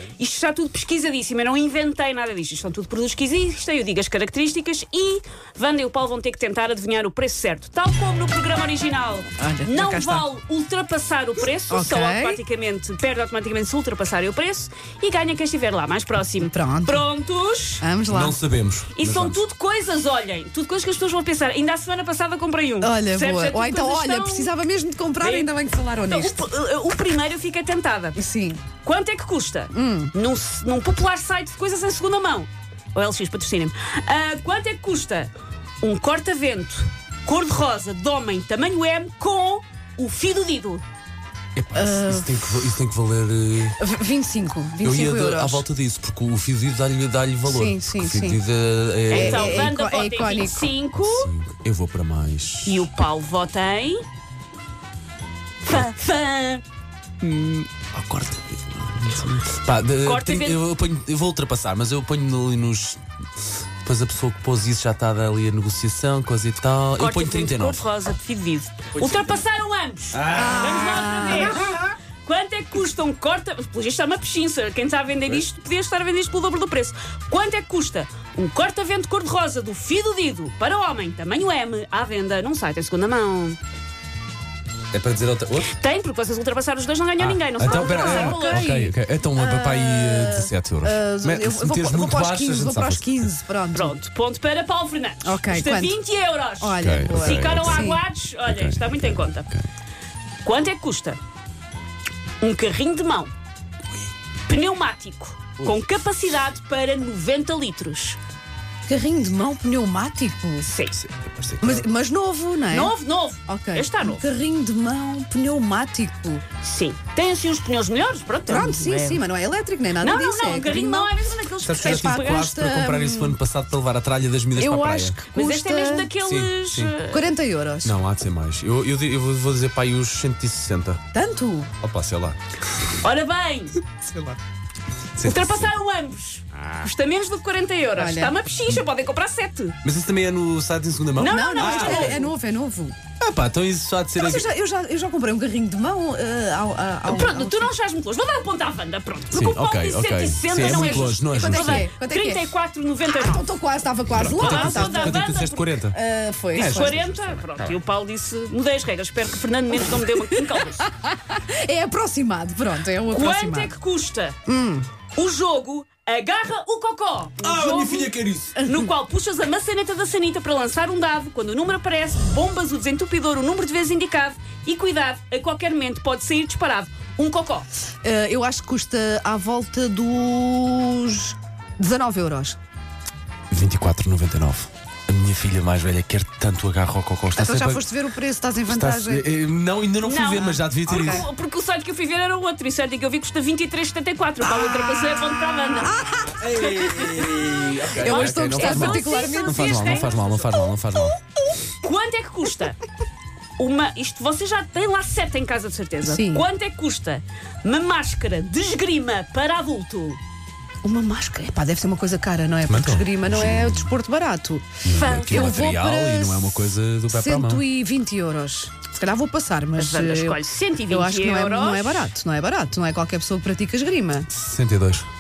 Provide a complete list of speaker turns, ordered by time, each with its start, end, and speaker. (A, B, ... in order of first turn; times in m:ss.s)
0:00.2-0:17.9 A
0:09.4-0:10.3 B
0:11.7-0:12.4 B
0:16.4-0:17.0 B
0:17.8-0:18.4 B
0:18.1-0:19.4 C
0:18.9-0:24.5 A
0:22.8-0:26.5 B
0:25.2-0:25.5 A
0:26.1-0:28.2 A
0:28.2-0:28.6 B
0:28.8-0:40.8 A
0:29.7-0:30.1 B
0:41.6-0:43.8 C
0:41.8-0:42.4 B
0:43.8-0:45.7 B
0:44.8-0:49.8 C
0:47.5-0:48.4 B
0:49.1-0:51.3 A
0:49.1-0:50.8 B
0:51.0-0:52.9 C
0:52.7-0:54.0 A
0:55.6-0:56.6 A
0:57.2-1:03.0 C
1:00.0-1:00.6 A
1:03.8-1:07.9 C
1:07.0-1:23.6 A
1:08.9-1:09.4 C
1:10.1-1:11.7 C
1:10.4-1:11.7 B
1:24.9-1:25.8 C
1:25.7-1:28.8 A
1:27.2-1:33.3 C
1:27.7-1:34.0 B
1:33.7-1:39.5 A
1:35.2-1:36.0 B
1:36.6-1:38.0 B
1:36.8-1:39.6 C
1:40.4-1:41.2 A
1:42.4-1:43.3 A
1:44.5-1:48.2 A
1:48.9-1:50.7 B
1:50.6-1:51.0 A
1:51.0-1:51.9 C
1:51.6-1:52.9 B
1:52.7-1:54.3 A
1:53.5-1:56.4 B
1:56.6-1:59.2 A
1:58.5-2:01.2 B
2:00.0-2:02.5 A
2:01.6-2:05.2 C
2:02.0-2:03.4 B
2:04.6-2:06.1 B
2:05.3-2:07.2 A
2:06.2-2:07.0 C
2:07.1-2:08.0 B
2:07.8-2:11.0 C
2:11.1-2:11.7 B
2:11.8-2:12.4 C
2:13.0-2:13.8 A
2:13.9-2:14.4 C
2:15.2-2:15.7 C
2:15.2-2:19.8 A
2:16.5-2:16.9 C
2:18.0-2:18.4 B
2:19.8-2:22.3 C
2:21.2-2:22.3 A
2:21.3-2:23.0 B
2:23.2-2:24.5 C
2:24.2-2:27.7 B
2:27.1-2:33.4 A
2:29.3-2:31.9 C
2:30.6-2:32.5 B
2:33.1-2:35.3 B
2:34.1-2:36.0 C
2:34.3-2:35.8 A
2:35.9-2:37.0 B
2:36.6-2:37.7 C
2:36.6-2:40.9 A
2:39.9-2:43.7 B
2:43.1-2:44.4 A
2:44.5-2:44.9 B
2:45.1-2:57.7 A
2:47.4-2:48.6 C
2:58.0-3:02.6 B
3:03.5-3:07.9 C
3:07.4-3:09.3 B
3:08.7-3:11.3 C
3:10.0-3:16.0 A
3:10.9-3:11.2 B
3:14.4-3:17.0 B
3:16.3-3:21.2 C
3:16.5-3:17.5 A
3:18.0-3:20.1 B
3:18.0-3:20.5 A
3:21.8-3:22.8 A
3:23.6-3:30.2 A
3:26.0-3:26.5 B
3:30.8-3:36.5 B
3:32.7-3:33.9 C
3:34.8-3:37.6 C
3:34.9-3:35.5 A
3:37.1-3:44.3 B
3:39.8-3:42.1 A
3:44.3-3:45.1 C